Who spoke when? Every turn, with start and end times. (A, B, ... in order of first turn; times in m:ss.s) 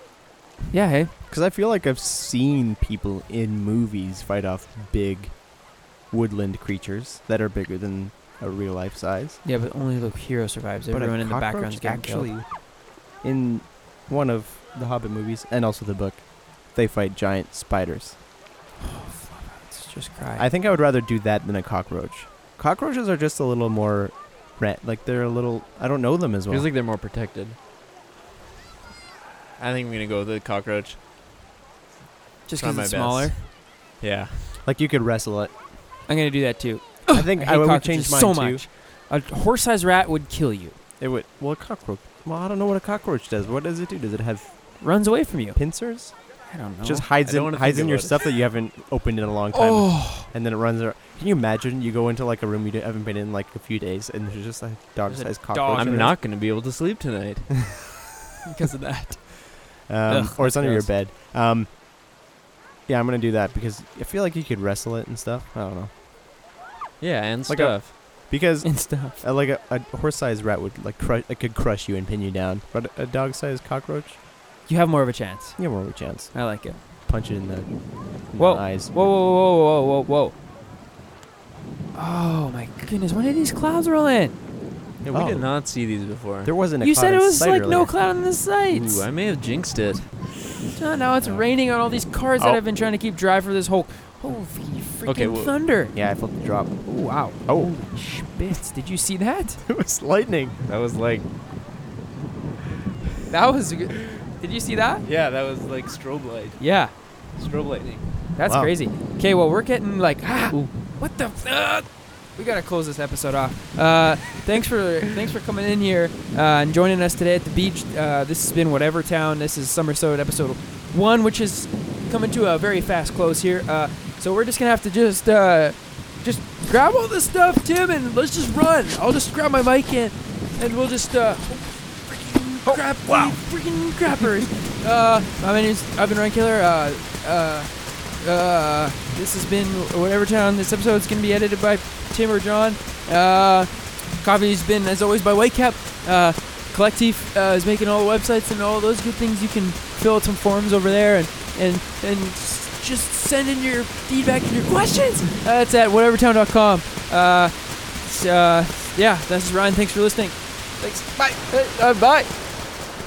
0:00.7-0:01.1 A
0:01.3-0:09.4 B
0:09.4-0:12.3 A
0:10.9-0:18.2 B
0:18.8-0:20.5 A
0:20.4-0:26.7 B
0:26.5-0:27.6 C
0:29.6-0:31.0 C
0:32.4-0:33.4 A
0:32.6-0:34.5 C
0:34.6-0:35.6 B
0:36.1-0:40.8 A
0:37.1-0:38.6 B
0:41.0-0:56.2 B
0:44.8-0:47.1 A
0:47.2-0:48.2 C
0:49.5-0:50.3 A
0:55.0-0:56.1 A
0:55.7-0:57.8 C
0:58.4-1:00.8 A
0:59.9-1:01.7 B
1:00.4-1:00.9 C
1:02.9-1:05.9 B
1:07.0-1:07.9 C
1:07.5-1:14.2 B
1:08.6-1:09.2 A
1:14.6-1:16.8 A
1:15.6-1:18.9 B
1:18.4-1:20.3 A
1:21.9-1:24.4 A
1:25.0-1:25.6 B
1:25.1-1:26.5 C
1:26.4-1:27.9 B
1:26.8-1:29.1 A
1:28.7-1:30.3 C
1:30.7-1:36.0 A
1:35.0-1:35.6 C
1:35.9-1:37.8 B
1:36.8-1:39.6 A
1:39.6-1:40.6 B
1:40.6-1:41.3 C
1:43.3-1:45.0 A
1:45.0-1:48.1 C
1:46.6-1:46.9 A
1:48.3-2:42.4 A
1:48.4-1:48.7 B